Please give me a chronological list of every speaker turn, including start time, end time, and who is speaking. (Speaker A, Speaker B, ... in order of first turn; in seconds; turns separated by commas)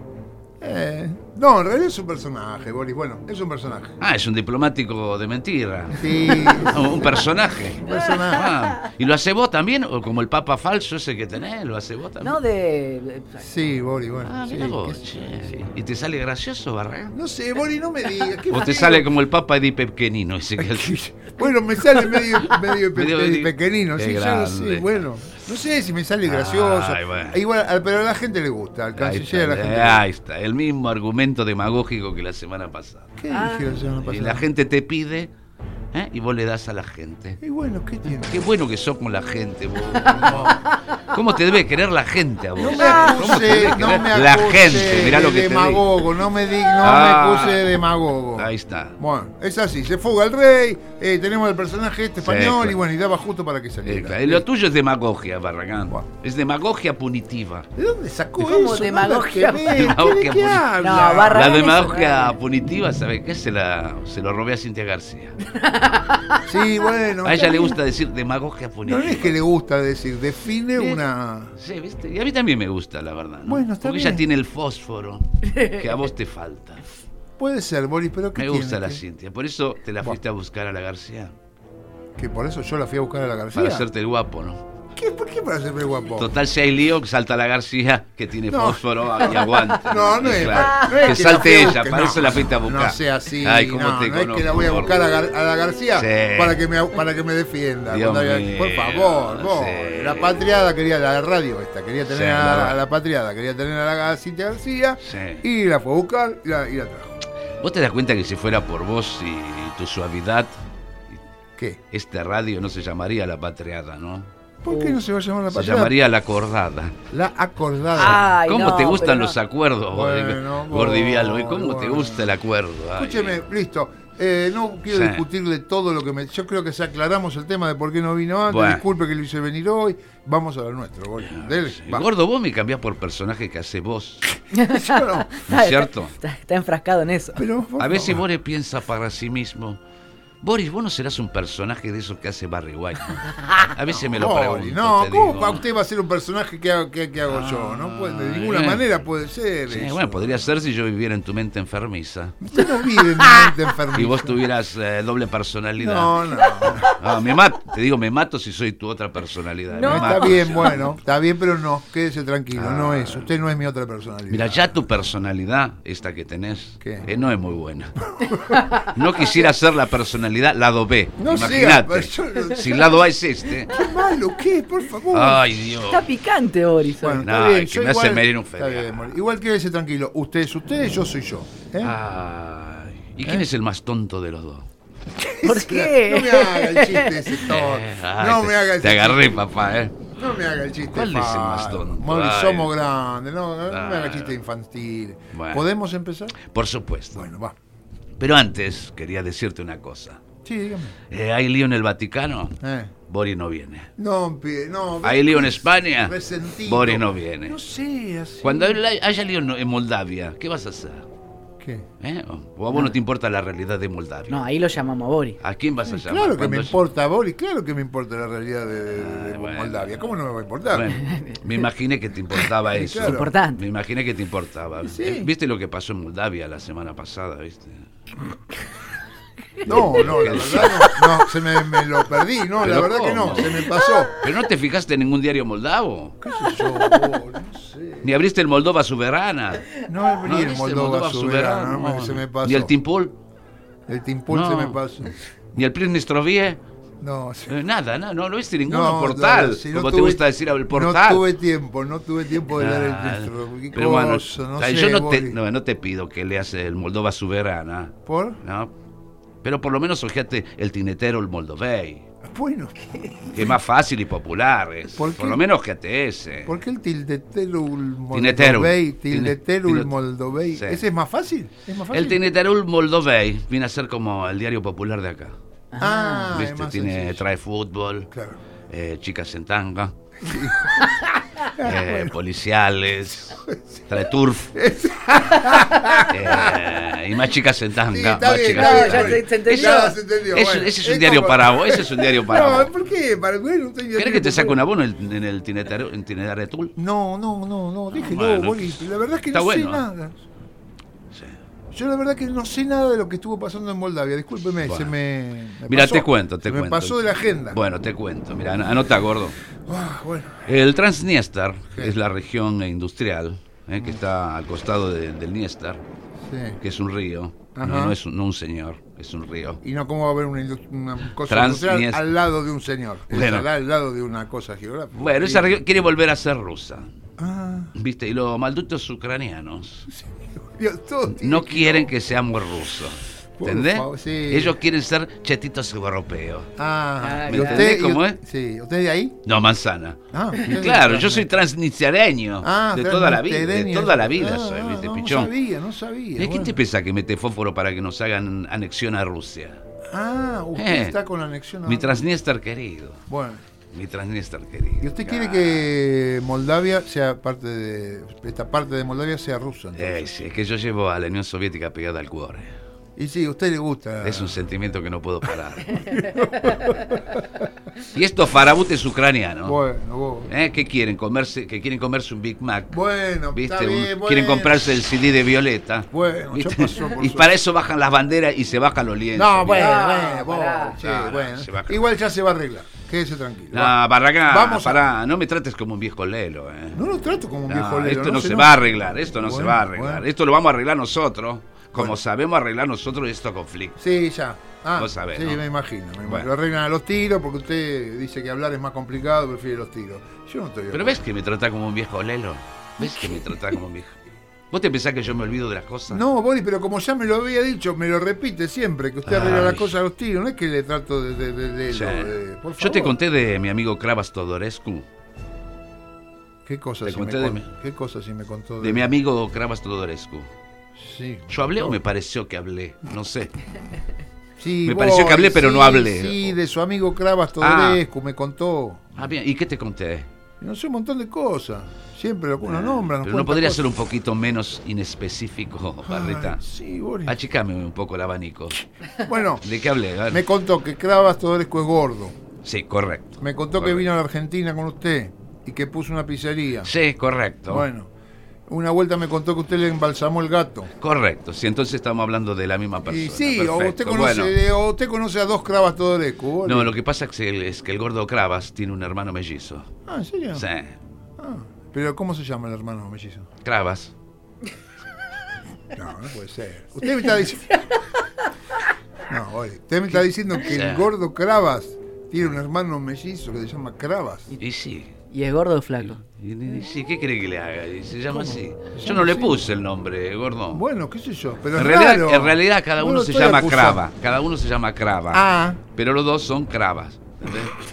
Speaker A: 0.6-4.0, Speaker B: 4.0-12.4, Speaker A: 5.9-8.6, Speaker C: 7.9-8.6, Speaker C: 12.2-13.4, Speaker A: 13.4-15.6, Speaker B: 14.2-17.1, Speaker A: 17.1-19.1, Speaker B: 18.5-21.0, Speaker A: 20.6-30.0, Speaker B: 22.9-25.0, Speaker B: 26.2-27.4, Speaker B: 28.9-33.1, Speaker A: 33.2-34.5, Speaker C: 33.3-33.7, Speaker B: 33.9-35.3, Speaker B: 35.9-37.4, Speaker A: 37.4-38.4, Speaker B: 38.1-45.9, Speaker A: 40.0-40.6, Speaker A: 42.6-54.4, Speaker C: 42.7-43.2, Speaker B: 46.8-47.7, Speaker B: 48.3-49.0, Speaker B: 52.2-52.8, Speaker B: 53.8-57.7, Speaker A: 57.7-61.7, Speaker C: 58.4-60.0, Speaker B: 59.7-65.4, Speaker C: 60.8-62.4, Speaker C: 65.5-66.4, Speaker A: 66.4-67.8, Speaker B: 67.2-69.4, Speaker A: 68.8-71.5, Speaker B: 71.5-76.8, Speaker A: 73.5-74.2, Speaker C: 75.5-75.8, Speaker A: 77.4-79.0, Speaker B: 78.3-81.3, Speaker A: 82.2-83.8, Speaker B: 83.5-84.6, Speaker A: 84.9-86.3, Speaker B: 86.2-95.0, Speaker A: 88.5-107.2, Speaker B: 95.9-96.6, Speaker B: 97.9-100.5, Speaker B: 102.1-102.8, Speaker B: 105.0-105.4, Speaker B: 107.6-110.6, Speaker B: 111.9-114.3, Speaker A: 114.6-116.0, Speaker C: 114.7-115.0, Speaker B: 115.5-117.0, Speaker A: 117.1-118.2, Speaker C: 117.9-119.3, Speaker B: 118.0-123.4, Speaker A: 119.9-122.3, Speaker A: 122.9-132.1, Speaker B: 124.9-125.2, Speaker B: 128.5-128.8, Speaker B: 131.2-134.3, Speaker C: 134.5-137.4, Speaker A: 134.7-135.3, Speaker B: 135.5-136.1, Speaker A: 137.4-138.2, Speaker B: 137.8-139.8, Speaker B: 140.4-145.6, Speaker A: 143.9-150.5, Speaker B: 147.2-148.9, Speaker B: 149.7-152.4, Speaker A: 152.4-154.4, Speaker C: 153.2-153.5, Speaker B: 153.9-160.9, Speaker A: 155.8-156.9, Speaker C: 159.7-160.8, Speaker A: 159.8-164.8, Speaker B: 162.5-163.3, Speaker B: 164.3-168.0, Speaker A: 166.8-167.1, Speaker A: 168.1-168.6, Speaker C: 168.5-168.8, Speaker B: 168.8-173.7, Speaker A: 171.2-173.0, Speaker A: 173.7-175.4, Speaker B: 175.1-176.0, Speaker C: 175.8-177.2, Speaker A: 177.0-181.9, Speaker B: 177.2-179.1, Speaker B: 181.8-184.7, Speaker A: 185.2-189.5, Speaker C: 185.4-187.4, Speaker B: 187.4-190.1, Speaker A: 190.1-196.3, Speaker B: 190.9-192.7, Speaker B: 193.7-194.3, Speaker B: 195.3-195.7, Speaker B: 196.3-197.2, Speaker A: 197.1-197.6, Speaker B: 198.2-200.2, Speaker A: 200.4-200.9, Speaker B: 201.1-203.9, Speaker A: 202.6-202.9, Speaker A: 204.0-208.8, Speaker B: 205.0-207.6, Speaker B: 208.4-211.1, Speaker A: 211.6-211.8, Speaker B: 212.0-214.4, Speaker C: 214.3-215.4, Speaker B: 215.4-216.8, Speaker A: 215.8-220.9, Speaker B: 218.9-220.1, Speaker B: 220.7-227.8, Speaker C: 220.9-221.6, Speaker A: 222.7-223.3, Speaker C: 222.9-223.6, Speaker A: 224.8-225.3, Speaker B: 229.6-231.0, Speaker A: 229.6-234.2, Speaker B: 232.6-236.2, Speaker A: 236.2-238.1, Speaker C: 236.6-237.1, Speaker B: 238.0-239.7, Speaker A: 239.8-242.7, Speaker B: 240.2-243.2, Speaker A: 243.9-245.2, Speaker B: 244.3-244.8, Speaker B: 245.5-246.6, Speaker A: 247.0-247.6, Speaker B: 247.5-251.3, Speaker A: 248.7-255.4, Speaker B: 252.5-258.7, Speaker A: 258.1-258.4, Speaker B: 259.4-262.1, Speaker A: 262.2-263.5, Speaker B: 263.3-266.6, Speaker A: 264.9-265.4, Speaker A: 266.4-272.2, Speaker B: 268.1-269.9, Speaker B: 270.5-270.8, Speaker B: 271.9-275.4, Speaker C: 275.7-276.3, Speaker A: 275.8-277.2, Speaker B: 276.3-278.1, Speaker A: 278.1-278.4, Speaker B: 278.7-279.9, Speaker A: 280.2-282.1, Speaker B: 281.6-284.6, Speaker A: 283.4-283.8, Speaker A: 284.5-286.8, Speaker B: 286.1-292.7, Speaker A: 287.9-294.6, Speaker C: 288.4-290.0, Speaker B: 293.9-296.7, Speaker A: 296.8-300.2, Speaker B: 297.9-299.9, Speaker B: 301.1-301.4, Speaker A: 301.7-307.6, Speaker B: 304.6-304.9, Speaker B: 305.7-307.0, Speaker B: 307.5-309.4, Speaker A: 309.7-310.5, Speaker B: 310.4-315.8, Speaker A: 316.2-316.6, Speaker B: 316.6-319.6, Speaker A: 317.5-317.9, Speaker A: 319.6-325.6, Speaker B: 321.3-322.1, Speaker B: 323.1-323.5, Speaker B: 324.9-327.0, Speaker A: 327.2-327.7, Speaker B: 327.7-329.9, Speaker A: 329.9-331.9, Speaker B: 331.1-336.5, Speaker A: 333.4-334.6, Speaker A: 336.6-339.2, Speaker C: 337.0-337.7, Speaker B: 337.2-338.2, Speaker B: 339.2-345.3, Speaker A: 340.1-341.3, Speaker A: 342.4-346.6, Speaker B: 346.2-349.6, Speaker A: 349.9-352.0, Speaker B: 350.6-351.0, Speaker B: 351.6-353.0, Speaker A: 353.1-353.4, Speaker B: 353.7-355.7, Speaker A: 354.8-360.1, Speaker B: 359.8-362.5, Speaker A: 363.0-364.4, Speaker B: 364.0-365.8, Speaker A: 365.8-367.5, Speaker B: 367.9-369.6, Speaker A: 369.4-370.3, Speaker B: 370.3-372.8, Speaker A: 372.7-374.6, Speaker B: 373.3-379.8, Speaker A: 375.9-377.4, Speaker A: 379.1-384.8, Speaker C: 379.5-380.8, Speaker B: 380.8-381.8, Speaker B: 383.5-386.8, Speaker A: 386.7-390.0, Speaker B: 387.5-393.8, Speaker A: 393.8-401.0, Speaker B: 394.8-395.4, Speaker B: 400.7-404.0, Speaker A: 402.8-403.3, Speaker B: 404.5-406.0, Speaker A: 405.9-412.9, Speaker B: 409.0-409.7, Speaker B: 411.7-414.9, Speaker A: 416.4-418.9, Speaker B: 416.8-417.5, Speaker B: 418.6-420.3, Speaker A: 420.8-421.8, Speaker B: 421.3-423.3, Speaker A: 424.4-429.1, Speaker B: 424.6-426.4, Speaker B: 427.4-427.8, Speaker B: 428.9-430.1, Speaker A: 430.4-433.7, Speaker B: 432.4-436.4, Speaker A: 435.8-437.1, Speaker B: 437.1-438.6, Speaker A: 439.0-439.4, Speaker B: 439.4-440.2, Speaker A: 440.1-442.2, Speaker B: 442.4-443.9, Speaker A: 443.2-446.7, Speaker B: 446.6-447.7, Speaker A: 447.5-447.9, Speaker A: 448.5-450.7, Speaker B: 450.8-454.4, Speaker A: 452.9-456.7, Speaker B: 456.4-459.7, Speaker A: 459.9-460.4, Speaker B: 460.3-460.8, Speaker A: 461.2-463.3, Speaker B: 463.4-463.9, Speaker A: 465.7-467.6, Speaker A: 469.1-474.3, Speaker B: 470.4-470.9, Speaker B: 474.4-474.9, Speaker C: 475.1-476.0, Speaker B: 475.8-480.6, Speaker A: 478.1-479.4, Speaker A: 480.5-483.8, Speaker B: 481.5-487.5, Speaker A: 485.1-485.6